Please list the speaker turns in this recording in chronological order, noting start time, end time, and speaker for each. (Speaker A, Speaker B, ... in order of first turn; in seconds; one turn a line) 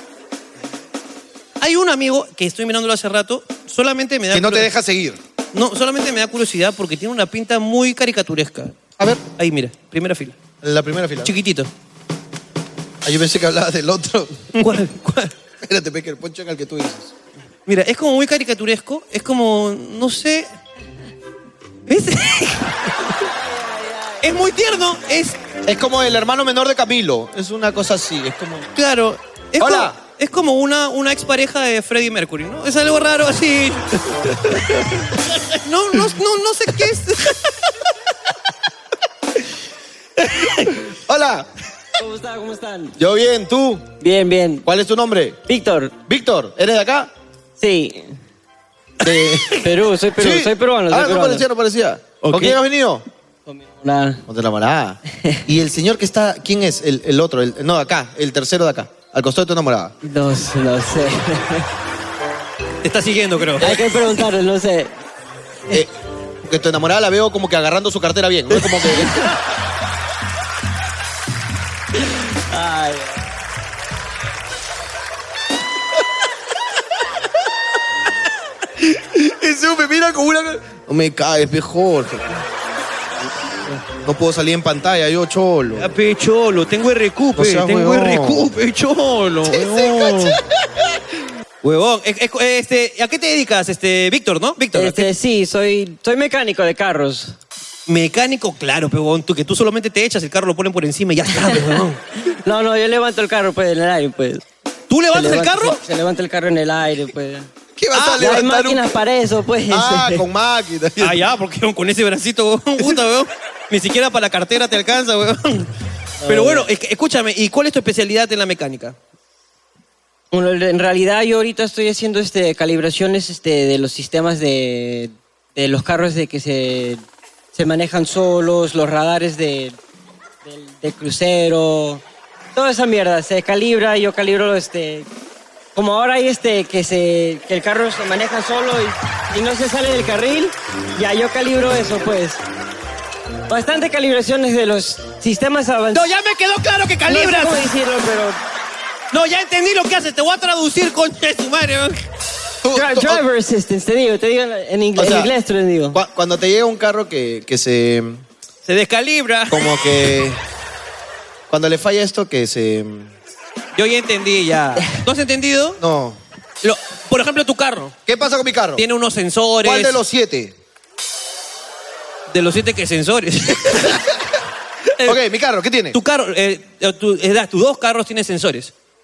Speaker A: 1.6-4.7
Speaker B: 4.3-5.2
Speaker A: 5.5-10.3
Speaker B: 10.6-11.3
Speaker A: 11.2-11.7
Speaker B: 13.0-14.7
Speaker A: 14.6-15.3
Speaker B: 15.6-17.1
Speaker A: 17.6-20.5
Speaker A: 21.9-22.9
Speaker A: 24.2-25.4
Speaker B: 25.6-28.7
Speaker A: 28.7-37.5
Speaker B: 29.6-29.9
Speaker A: 40.3-40.7
Speaker B: 40.9-41.5
Speaker C: 42.0-42.9
Speaker B: 43.0-43.9
Speaker C: 44.0-44.6
Speaker B: 44.6-45.4
Speaker C: 45.5-45.9
Speaker B: 46.1-47.1
Speaker C: 47.6-48.2
Speaker B: 49.0-53.0
Speaker C: 49.6-51.4
Speaker C: 52.3-52.6
Speaker C: 53.5-54.2
Speaker B: 54.3-59.9
Speaker C: 60.0-61.7
Speaker A: 62.8-63.8
Speaker C: 63.6-64.9
Speaker B: 66.4-69.1
Speaker C: 68.5-69.3
Speaker C: 72.5-73.2
Speaker B: 78.8-82.4
Speaker B: 83.8-85.9
Speaker A: 85.8-90.4
Speaker B: 87.3-88.5
Speaker B: 89.5-90.4
Speaker A: 91.6-95.1
Speaker C: 94.7-97.3
Speaker A: 97.9-102.0
Speaker C: 101.4-104.4
Speaker A: 104.9-105.8
Speaker C: 105.1-107.5
Speaker B: 107.8-109.0
Speaker A: 107.9-108.4
Speaker C: 108.1-110.2
Speaker B: 109.7-111.2
Speaker A: 111.0-115.7
Speaker C: 116.2-116.7
Speaker A: 116.2-118.9
Speaker C: 120.3-127.0
Speaker C: 127.5-129.8
Speaker C: 130.4-132.0
Speaker C: 132.5-135.1
Speaker C: 135.7-142.4
Speaker C: 143.5-146.1
Speaker A: 145.9-147.7
Speaker C: 147.1-148.4
Speaker A: 149.1-152.0
Speaker B: 152.6-153.2
Speaker C: 152.7-156.0
Speaker B: 154.9-155.3
Speaker B: 155.9-158.2
Speaker A: 158.7-159.8
Speaker B: 159.5-160.4
Speaker B: 161.5-163.1
Speaker A: 163.7-165.8
Speaker B: 165.8-166.2
Speaker A: 166.6-167.9
Speaker B: 168.1-168.8
Speaker A: 168.8-170.0
Speaker B: 169.6-170.5
Speaker A: 172.3-174.0
Speaker B: 175.0-176.0
Speaker A: 175.9-178.7